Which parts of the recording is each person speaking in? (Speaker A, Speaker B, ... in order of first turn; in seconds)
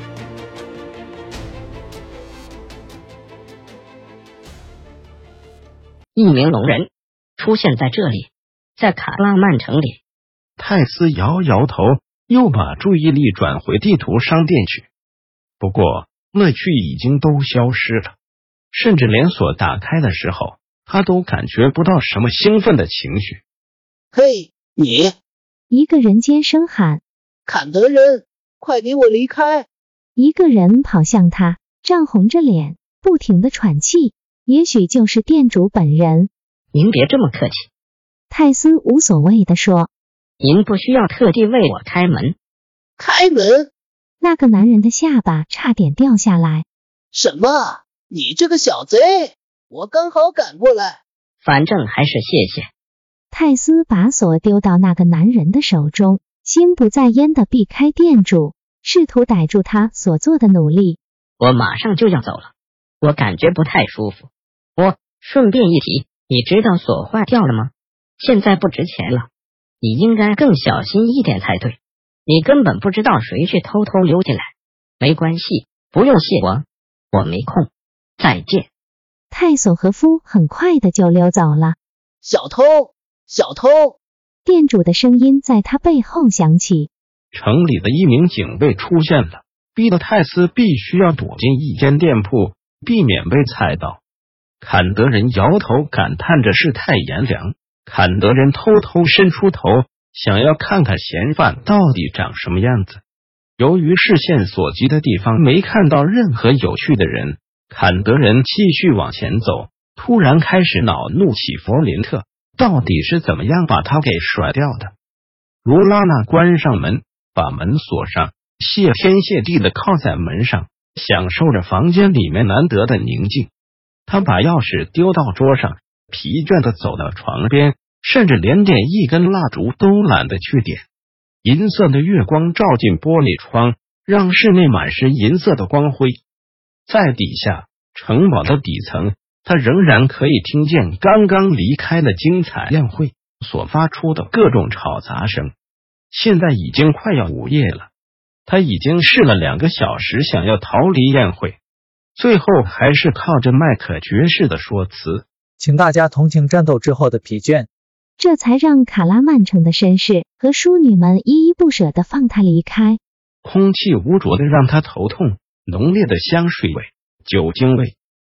Speaker A: 6.2-10.0, 36.7-37.7, 40.4-42.4, 51.4-52.7, 61.4-62.5, 63.0-69.3, 69.8-78.7
Speaker B: 10.6-14.9, 15.6-18.1, 18.7-23.4, 87.3-94.0, 94.6-103.0, 103.6-114.9, 115.6-123.5, 124.1-130.9, 131.4-136.2, 136.9-145.5, 146.1-147.9, 148.5-151.6, 152.2-155.2, 163.4-168.0
Speaker C: 24.1-25.2, 27.5-29.7, 43.0-43.7, 47.1-51.0, 82.2-84.0
Speaker D: 25.7-27.0, 30.2-36.3, 38.3-39.9, 44.2-46.6, 53.3-61.0, 79.3-81.8, 84.5-86.9, 158.2-163.0
Speaker E: 155.6-157.7